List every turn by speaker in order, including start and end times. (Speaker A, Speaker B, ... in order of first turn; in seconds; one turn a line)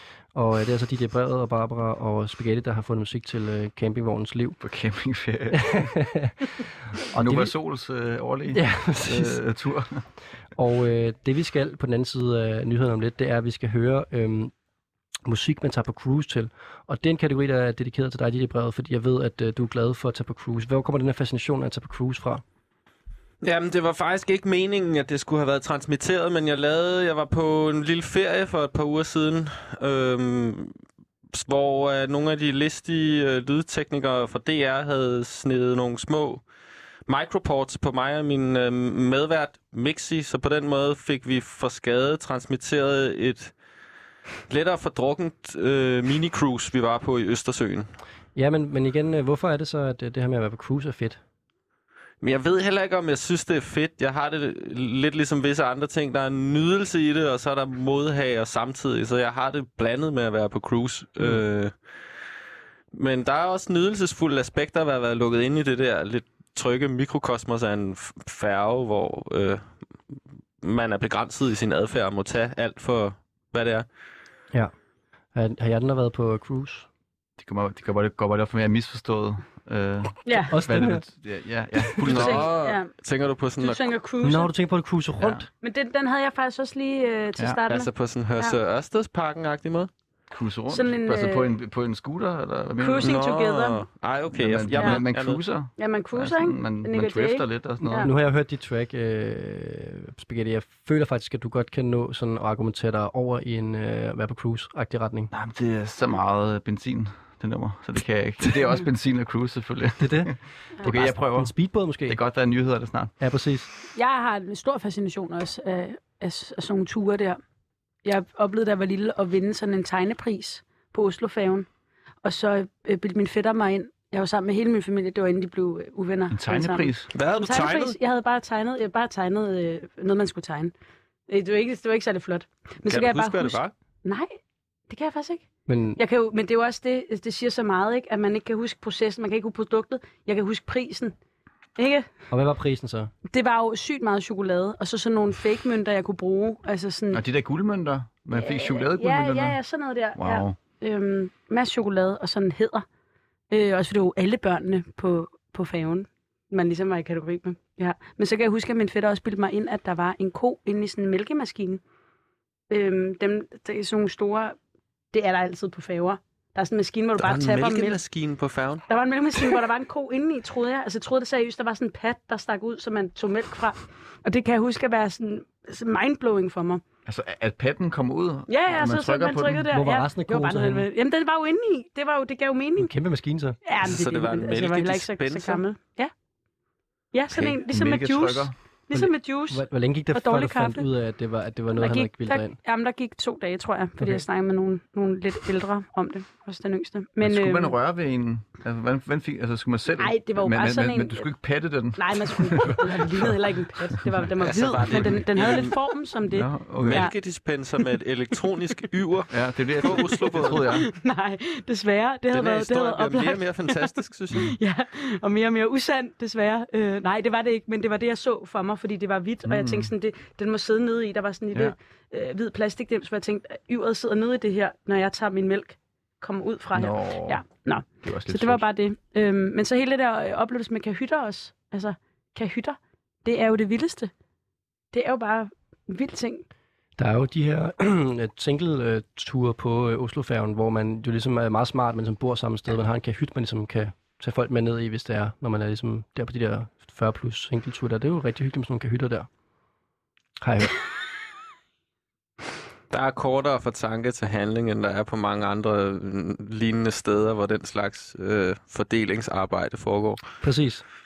Speaker A: 0.3-4.6
Speaker B: 4.6-6.0
Speaker A: 5.5-6.3
Speaker B: 7.0-10.1
Speaker A: 7.2-7.5
Speaker A: 8.5-9.4
Speaker A: 10.6-14.5
Speaker A: 15.3-22.4
Speaker C: 23.4-30.7
Speaker C: 31.3-36.4
Speaker C: 37.1-43.5
Speaker C: 44.5-47.9
Speaker A: 48.4-51.2
Speaker C: 52.2-61.7
Speaker C: 62.9-69.6
Speaker C: 70.6-73.9
Speaker A: 75.3-76.9
Speaker B: 77.4-82.5
Speaker D: 80.3-80.6
Speaker A: 80.5-81.0
Speaker C: 82.0-83.9
Speaker D: 82.1-82.9
Speaker D: 83.6-84.5
Speaker A: 84.2-85.5
Speaker B: 85.2-85.5
Speaker D: 85.6-88.6
Speaker C: 87.7-89.9
Speaker B: 90.3-93.2
Speaker D: 90.7-91.5
Speaker D: 92.8-93.8
Speaker C: 93.0-95.4
Speaker B: 94.3-98.1
Speaker D: 95.8-98.1
Speaker A: 98.0-105.3
Speaker B: 105.3-111.5
Speaker A: 110.0-112.2
Speaker B: 112.1-113.1
Speaker A: 113.2-113.7
Speaker D: 113.9-117.4
Speaker D: 118.0-121.7
Speaker D: 122.2-130.7
Speaker B: 126.3-127.1
Speaker C: 127.2-128.0
Speaker D: 131.3-134.4
Speaker C: 132.9-133.7
Speaker D: 134.9-135.5
Speaker A: 135.7-136.0
Speaker D: 136.0-141.1
Speaker D: 141.8-142.1
Speaker A: 142.3-143.1
Speaker D: 143.3-147.2
Speaker B: 147.1-149.6
Speaker D: 148.3-152.8
Speaker B: 150.2-150.6
Speaker D: 153.5-161.8
Speaker D: 162.7-164.6
Speaker D: 165.1-168.0
Speaker C: 167.2-168.8
Speaker D: 168.9-176.8
Speaker B: 177.1-179.7
Speaker D: 178.5-182.9
Speaker A: 179.7-180.9
Speaker A: 182.8-183.6
Speaker D: 183.7-186.1
Speaker C: 183.8-185.6
Speaker D: 187.1-190.9
Speaker B: 187.6-188.5
Speaker A: 188.9-192.6
Speaker D: 191.8-197.7
Speaker A: 194.0-194.2
Speaker B: 197.2-203.4
Speaker D: 200.0-201.3
Speaker D: 202.0-207.2
Speaker C: 204.4-205.8
Speaker B: 206.3-207.1
Speaker C: 206.8-210.8
Speaker B: 209.3-210.9
Speaker D: 209.8-234.1
Speaker C: 212.3-214.6
Speaker B: 219.4-219.9
Speaker B: 226.7-227.4
Speaker B: 228.0-228.7
Speaker D: 234.9-236.4
Speaker A: 237.0-249.3
Speaker A: 250.4-250.7
Speaker C: 252.9-260.2
Speaker A: 260.4-260.8